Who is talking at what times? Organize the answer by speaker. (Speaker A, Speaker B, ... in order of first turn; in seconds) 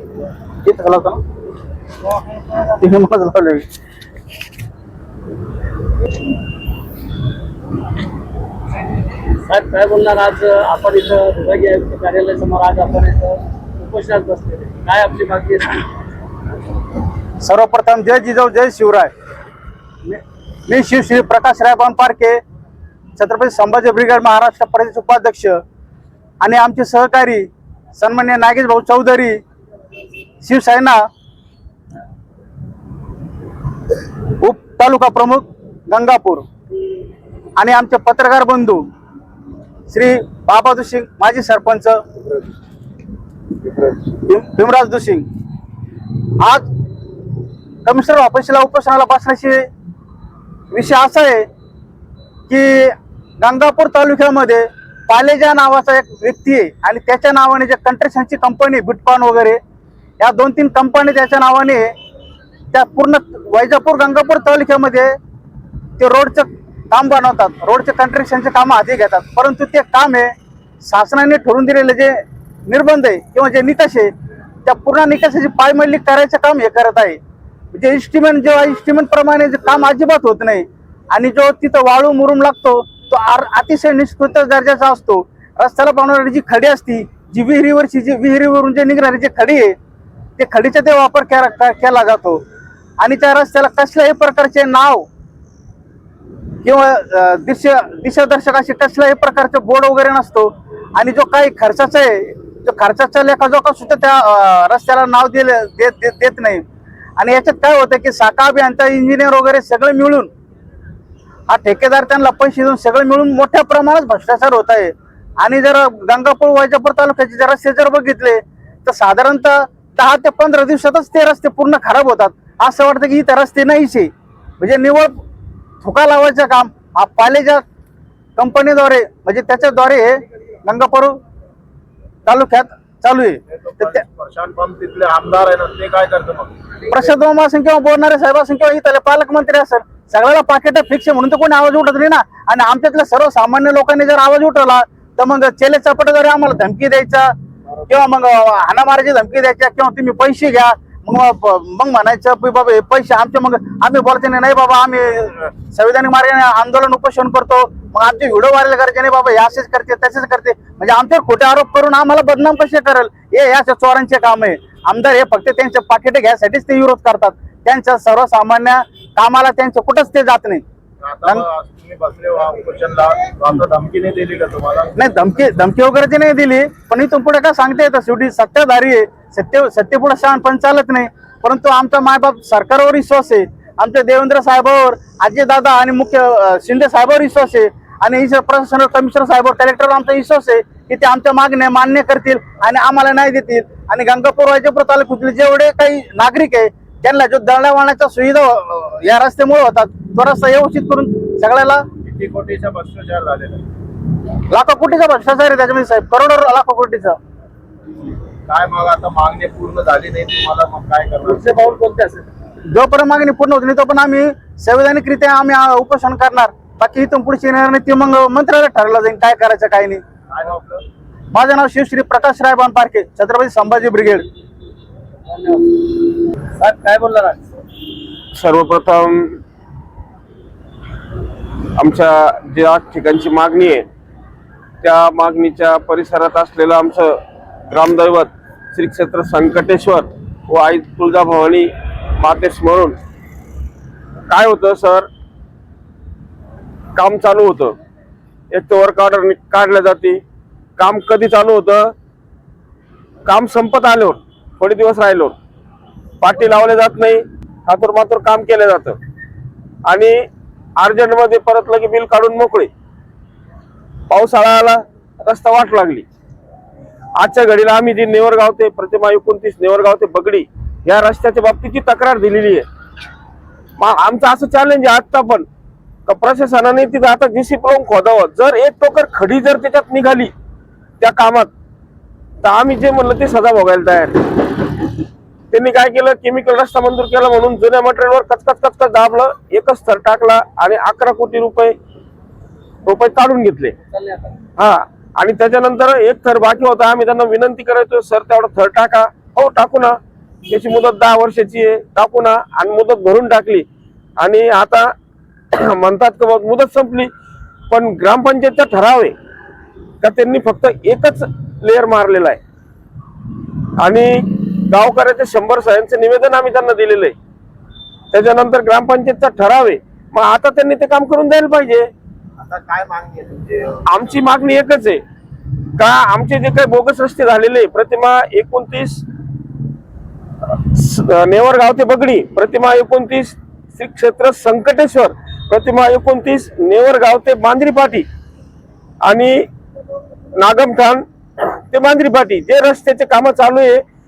Speaker A: 0.6-1.2, 2.5-3.7, 17.4-19.1, 20.1-22.4, 23.2-25.6, 26.4-29.4, 30.4-31.0, 34.4-36.5, 37.6-38.8, 39.9-42.0, 44.1-45.3, 47.9-49.7, 50.7-51.5, 52.5-59.6, 60.2-61.9, 62.7-65.1, 66.0-70.3, 70.8-74.1, 74.7-77.2, 77.7-89.8, 90.4-92.4, 93.0-95.1, 96.6-106.6, 107.2-110.3, 111.5-125.2, 125.8-127.6, 128.4-131.2, 132.2-134.0, 136.9-147.3, 147.9-170.6, 175.0-201.8, 204.5-207.2, 212.7-220.0, 221.3-224.3
Speaker B: 9.4-15.9, 211.3-212.3, 225.3-226.0, 226.6-227.5, 293.9-294.4
Speaker C: 133.5-136.6, 171.0-174.9, 202.0-203.7, 208.5-211.8, 220.3-220.8, 322.4-323.8
Speaker D: 228.3-229.4, 231.7-233.9, 234.8-243.0, 244.3-245.1, 246.9-247.8, 248.5-250.2, 250.8-251.9, 253.2-255.4, 256.2-259.0, 259.9-260.3, 260.8-262.7, 264.1-266.1, 267.2-272.7, 273.8-275.5, 276.1-280.3, 281.0-281.5, 282.4-284.6, 285.5-291.8, 292.9-293.8, 294.6-303.7, 304.2-304.9, 305.5-307.1, 307.7-309.2, 310.0-312.4, 313.8-317.2, 318.1-321.9, 323.9-325.0, 325.8-329.0, 330.4-338.1, 339.0-339.5, 340.4-343.8